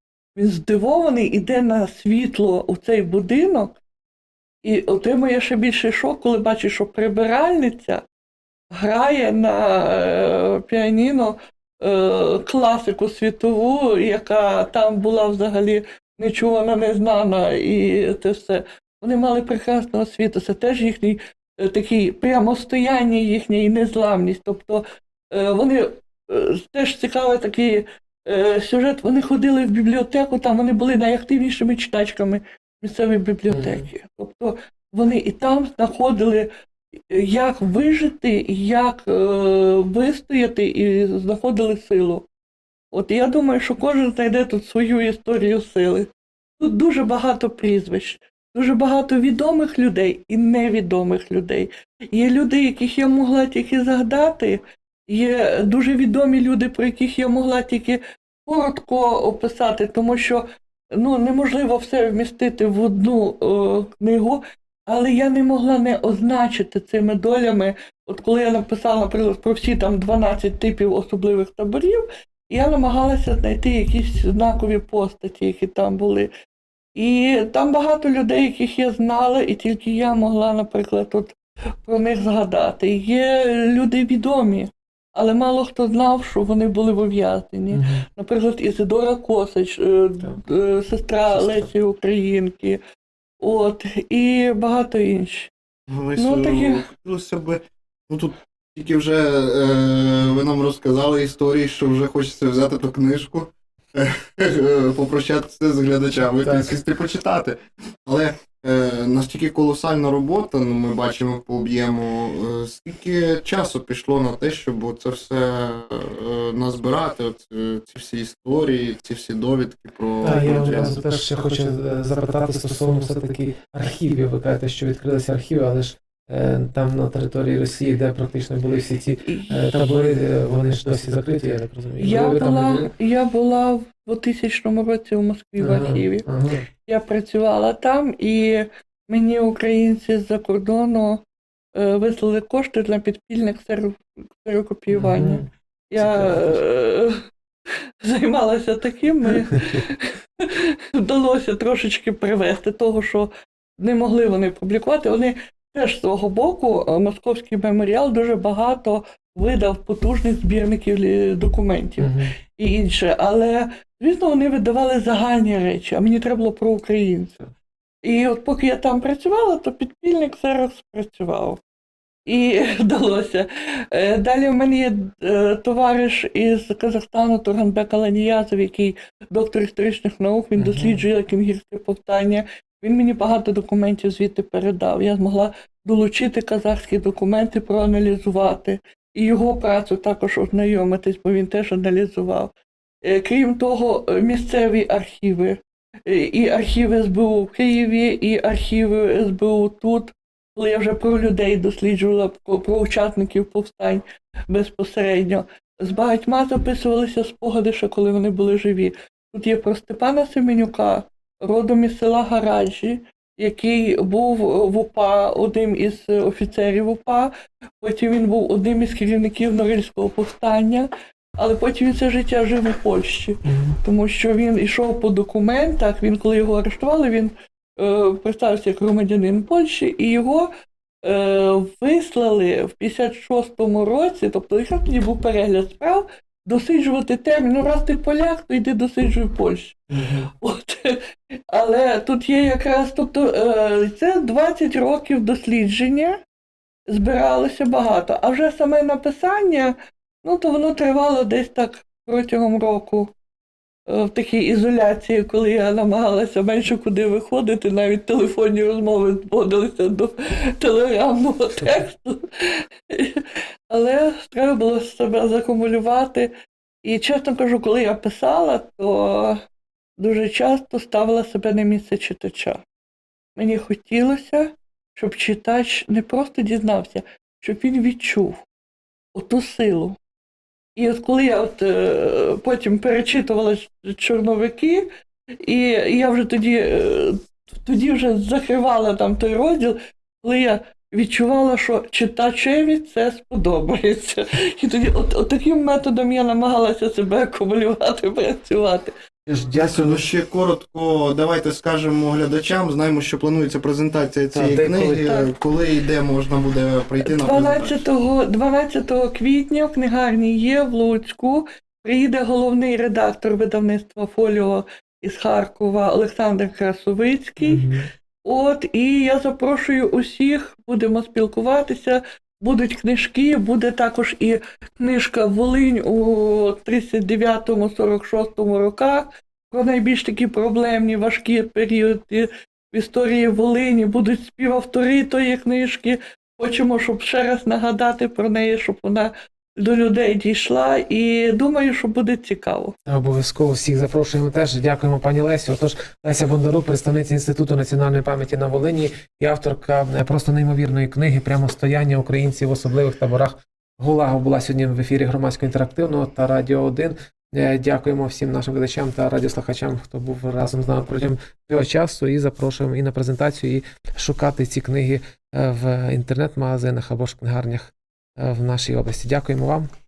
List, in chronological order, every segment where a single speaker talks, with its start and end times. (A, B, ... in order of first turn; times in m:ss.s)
0:00.4-0:03.8 A
0:04.6-0:08.0 A
0:08.7-0:36.5 A
0:33.5-0:33.8 B
0:37.1-0:42.2 A
0:42.9-1:16.3 A
1:16.9-1:32.8 A
1:27.7-1:28.0 B
1:31.3-1:31.7 B
1:33.4-1:35.5 A
1:35.9-2:01.1 C
1:36.2-1:36.8 A
2:00.2-2:12.9 B
2:09.2-2:09.6 A
2:12.0-2:16.2 A
2:15.6-2:16.6 B
2:16.8-2:21.2 A
2:21.7-2:27.2 A
2:24.9-2:26.6 B
2:28.0-2:47.4 A
2:42.0-2:42.3 B
2:48.0-2:51.6 A
2:52.2-3:12.5 A
3:00.6-3:01.0 B
3:13.0-3:50.5 A
3:43.4-3:43.8 B
3:51.0-4:06.2 A
3:59.9-4:00.3 B
4:06.9-4:13.1 A
4:13.9-4:26.3 A
4:26.8-4:29.4 A
4:30.0-4:32.6 A
4:33.4-4:38.4 A
4:39.1-4:40.0 A
4:40.8-4:44.9 A
4:45.4-4:58.9 A
4:59.3-5:00.0 B
4:59.5-5:07.8 C
5:04.3-5:05.3 B
5:07.0-5:17.6 A
5:17.4-5:17.8 B
5:18.2-5:42.7 A
5:42.9-6:09.7 B